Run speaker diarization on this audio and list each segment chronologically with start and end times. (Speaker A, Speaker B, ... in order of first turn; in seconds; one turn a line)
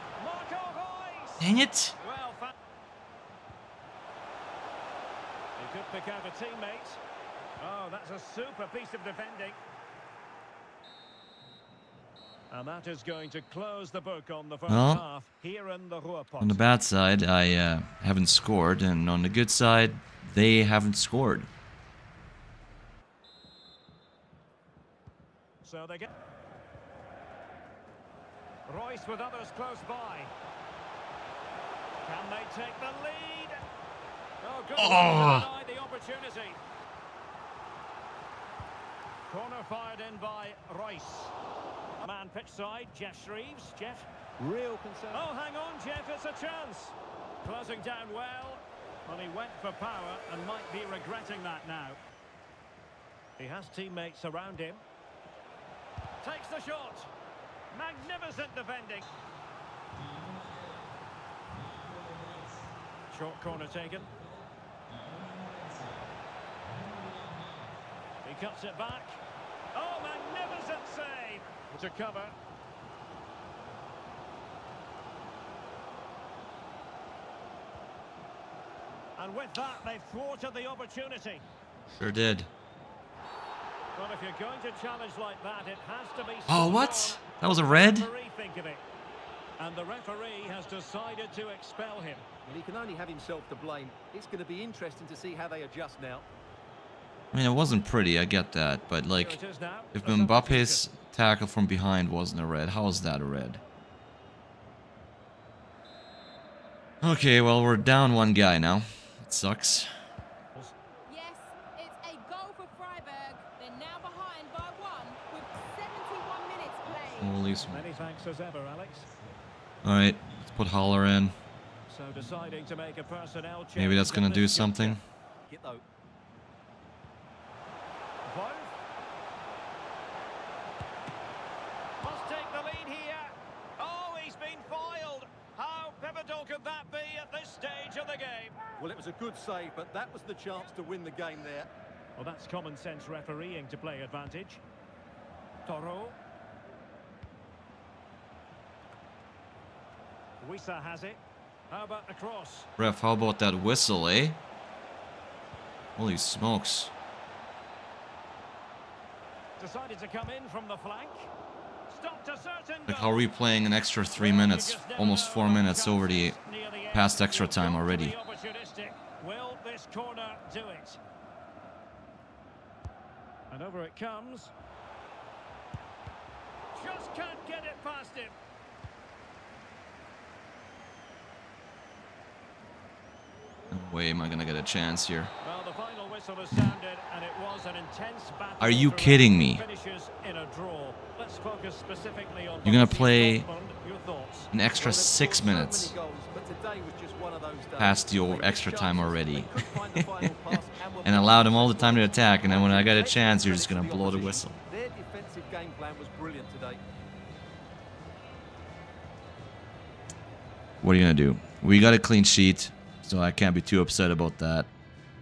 Speaker A: 0.2-2.5
Speaker B: 1.4-1.9
Speaker A: 5.6-7.0
Speaker A: 7.6-9.6
Speaker A: 12.5-16.8
Speaker B: 14.7-15.1
Speaker B: 16.4-21.5
Speaker A: 25.6-26.1
Speaker A: 28.7-30.3
Speaker A: 32.0-33.6
Speaker A: 34.4-36.6
Speaker B: 34.8-35.5
Speaker A: 39.3-41.3
Speaker A: 42.0-44.1
Speaker C: 44.4-45.3
Speaker A: 45.1-52.0
Speaker A: 53.4-54.8
Speaker A: 56.2-57.1
Speaker A: 57.7-59.1
Speaker A: 63.1-64.1
Speaker A: 68.2-69.2
Speaker A: 69.7-72.3
Speaker A: 79.2-81.4
Speaker B: 82.0-82.5
Speaker A: 84.0-88.8
Speaker B: 86.5-88.1
Speaker A: 89.6-92.2
Speaker C: 92.5-96.3
Speaker B: 97.3-99.4
Speaker A: 99.1-100.8
Speaker B: 99.9-103.6
Speaker B: 107.0-109.9
Speaker D: 111.1-117.4
Speaker B: 117.2-118.0
Speaker A: 117.7-119.1
Speaker B: 119.8-121.3
Speaker A: 121.9-125.0
Speaker B: 123.8-125.0
Speaker C: 125.5-125.8
Speaker A: 128.3-128.8
Speaker A: 132.0-138.6
Speaker C: 138.8-141.7
Speaker A: 142.2-144.6
Speaker A: 145.7-146.2
Speaker A: 150.4-152.7
Speaker B: 152.8-154.4
Speaker B: 156.0-156.9
Speaker A: 159.6-161.3
Speaker A: 161.9-163.2
Speaker B: 162.9-166.4
Speaker A: 164.2-171.0
Speaker B: 166.9-168.2
Speaker A: 173.5-174.5
Speaker A: 176.7-178.4
Speaker B: 183.7-185.3
Speaker A: 185.4-194.5
Speaker B: 188.6-189.7
Speaker B: 192.7-193.5
Speaker B: 194.5-195.9
Speaker C: 194.8-206.8
Speaker B: 197.8-204.6
Speaker B: 210.8-214.7